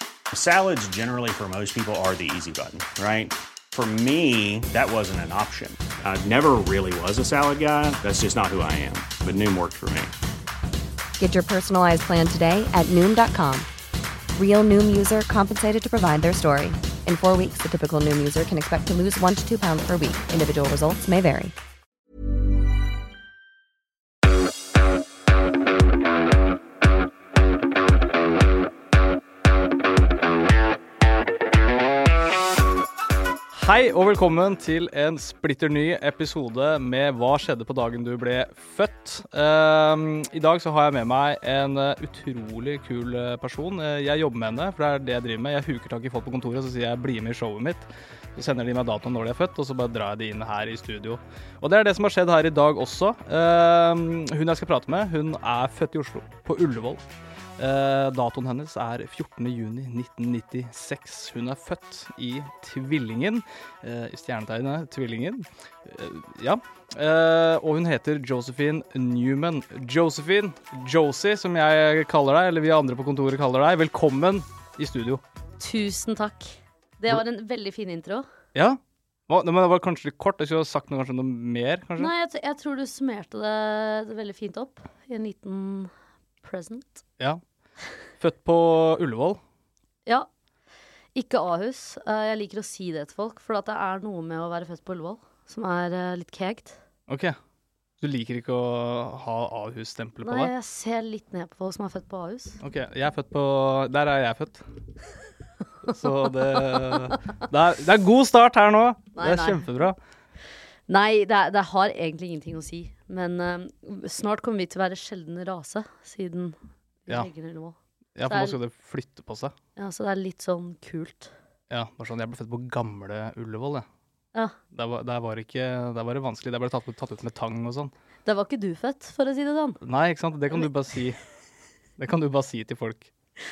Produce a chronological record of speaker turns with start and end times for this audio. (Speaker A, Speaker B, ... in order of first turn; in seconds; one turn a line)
Speaker A: 0.3-10.1
Speaker B: 11.2-13.7
Speaker B: 14.3-21.5
Speaker C: 33.5-57.0
Speaker C: 57.6-75.2
Speaker D: 75.6-78.2
Speaker C: 78.5-82.1
Speaker D: 82.0-85.9
Speaker D: 86.4-87.0
Speaker C: 88.2-89.4
Speaker D: 91.1-96.8
Speaker C: 97.1-97.4
Speaker C: 98.0-100.5
Speaker D: 100.2-102.6
Speaker C: 102.6-104.6
Speaker C: 105.8-110.0
Speaker D: 106.2-107.0
Speaker D: 109.1-109.7
Speaker D: 110.9-117.8
Speaker C: 118.2-119.5
Speaker D: 118.3-118.6
Speaker D: 119.8-121.3
Speaker C: 121.7-123.8
Speaker C: 124.7-127.9
Speaker D: 128.2-129.8
Speaker C: 129.8-131.2
Speaker C: 132.0-133.1